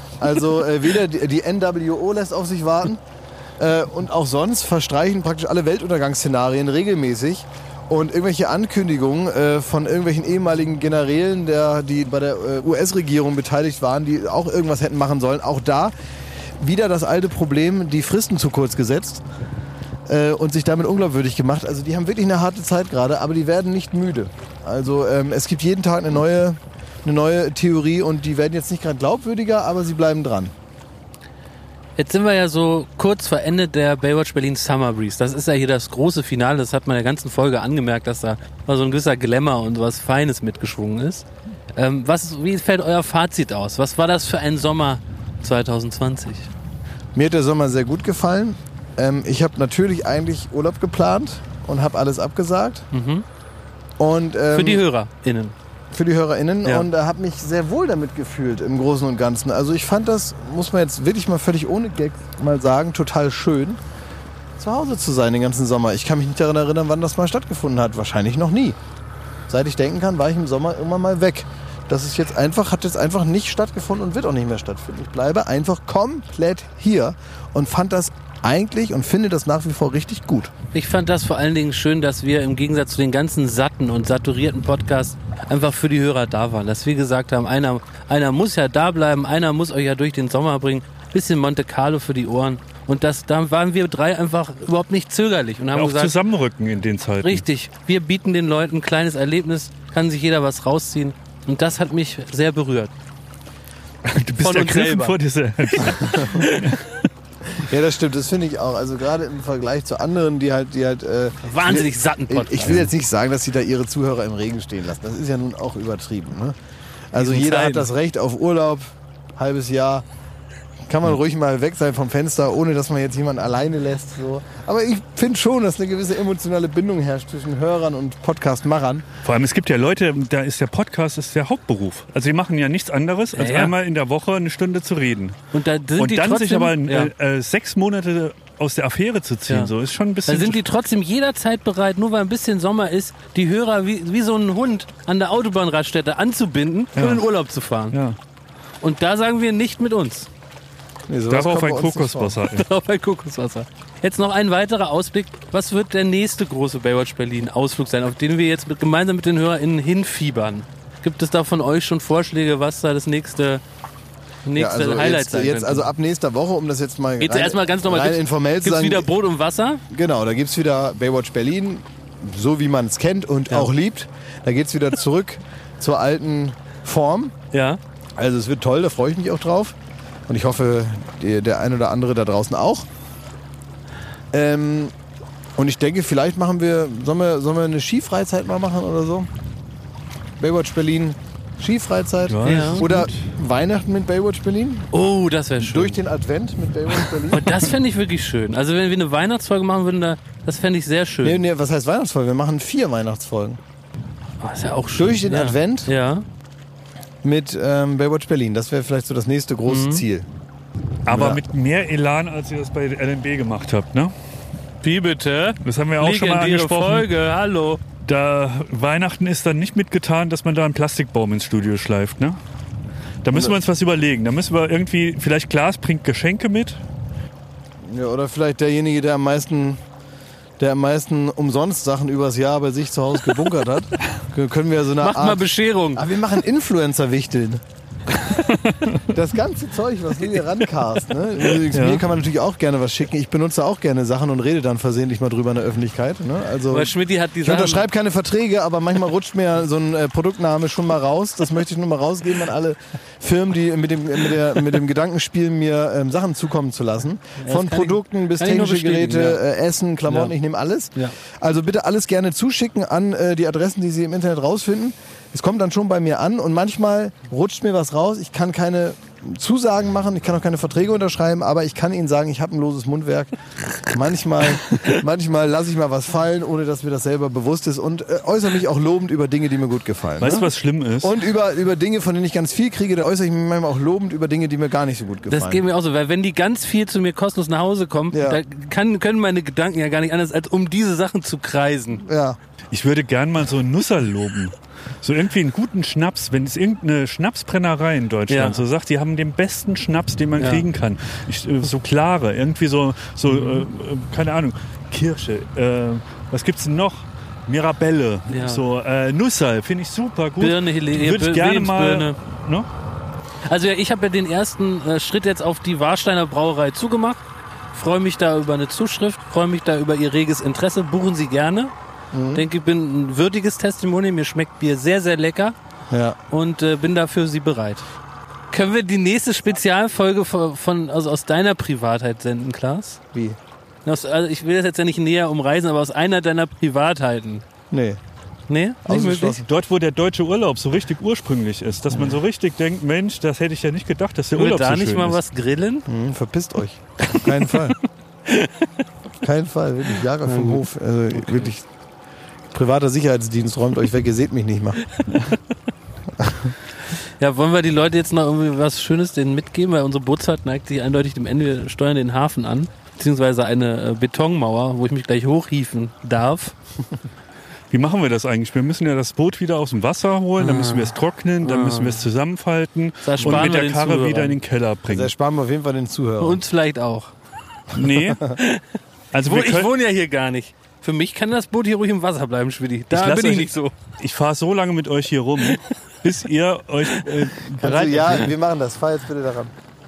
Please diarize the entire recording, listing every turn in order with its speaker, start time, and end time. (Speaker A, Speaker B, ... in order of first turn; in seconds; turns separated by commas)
Speaker A: 0.2-3.0, Speaker A: 3.6-15.9, Speaker A: 16.6-19.2, Speaker A: 20.1-30.5, Speaker B: 32.0-46.5, Speaker A: 47.1-52.9, Speaker B: 52.9-53.2, Speaker A: 54.0-54.8, Speaker B: 54.5-55.5, Speaker A: 55.9-63.8, Speaker A: 64.6-68.8, Speaker A: 69.5-80.5, Speaker B: 80.7-96.1, Speaker C: 95.7-97.4, Speaker B: 97.2-102.9, Speaker C: 104.0-107.0, Speaker B: 104.4-105.2, Speaker B: 105.7-106.8, Speaker A: 107.5-116.5, Speaker B: 111.5-112.9, Speaker A: 117.1-120.0, Speaker B: 117.1-117.9, Speaker A: 120.9-129.0, Speaker C: 129.2-135.4, Speaker B: 133.3-133.7, Speaker B: 135.5-137.1, Speaker C: 136.0-140.6, Speaker B: 140.2-147.9, Speaker C: 146.9-147.2, Speaker C: 147.9-148.2, Speaker B: 148.8-150.3, Speaker A: 151.1-152.4, Speaker C: 151.3-152.7, Speaker B: 152.5-163.6, Speaker B: 164.4-165.9, Speaker A: 164.6-169.1, Speaker B: 167.2-169.8, Speaker A: 169.9-177.3, Speaker B: 177.5-177.8, Speaker A: 178.2-179.8, Speaker A: 180.3-182.9, Speaker A: 184.3-184.9, Speaker A: 185.6-189.3, Speaker A: 190.4-194.9, Speaker C: 192.3-193.3, Speaker B: 192.4-192.9, Speaker B: 194.9-196.0, Speaker A: 195.6-197.5, Speaker B: 197.2-201.4, Speaker A: 201.2-203.6, Speaker B: 204.4-206.2, Speaker A: 204.9-205.9, Speaker A: 207.2-210.3, Speaker B: 209.7-210.0, Speaker C: 211.0-214.1, Speaker A: 211.1-211.4, Speaker B: 214.8-217.8, Speaker C: 215.6-217.1, Speaker C: 218.0-222.4, Speaker C: 223.2-226.8, Speaker A: 227.8-229.8, Speaker A: 230.6-237.6, Speaker B: 235.0-236.1, Speaker C: 238.2-239.0, Speaker A: 239.1-273.3, Speaker C: 241.7-242.0, Speaker B: 246.7-247.9, Speaker B: 257.4-259.4, Speaker B: 260.1-260.3, Speaker A: 273.8-280.5, Speaker C: 280.2-281.1, Speaker A: 281.0-285.6, Speaker B: 285.3-292.0, Speaker A: 288.1-288.4, Speaker A: 292.0-292.4, Speaker C: 292.7-312.7, Speaker B: 298.3-298.6, Speaker B: 300.4-300.6, Speaker B: 303.3-303.6, Speaker B: 308.3-308.6, Speaker B: 310.4-312.2, Speaker B: 313.4-321.7, Speaker A: 322.1-322.4, Speaker B: 322.3-325.6, Speaker A: 325.9-326.2, Speaker B: 326.3-327.9, Speaker B: 328.5-333.0, Speaker A: 333.1-333.4, Speaker B: 333.8-337.4, Speaker A: 337.7-338.0, Speaker B: 338.5-339.4, Speaker A: 338.9-339.4, Speaker C: 339.4-345.2, Speaker B: 344.3-345.9, Speaker A: 345.9-347.8, Speaker B: 348.3-348.5, Speaker A: 349.2-351.6, Speaker B: 350.2-350.6, Speaker A: 352.5-354.9, Speaker A: 356.2-356.5, Speaker B: 357.2-366.5, Speaker C: 367.7-375.1, Speaker B: 370.4-372.0, Speaker B: 373.0-374.4, Speaker A: 374.9-376.4, Speaker B: 376.2-377.1, Speaker C: 377.7-378.3, Speaker A: 378.1-378.4, Speaker B: 378.3-378.6, Speaker C: 379.1-379.7, Speaker B: 379.2-383.7, Speaker C: 382.9-388.3, Speaker A: 387.6-389.5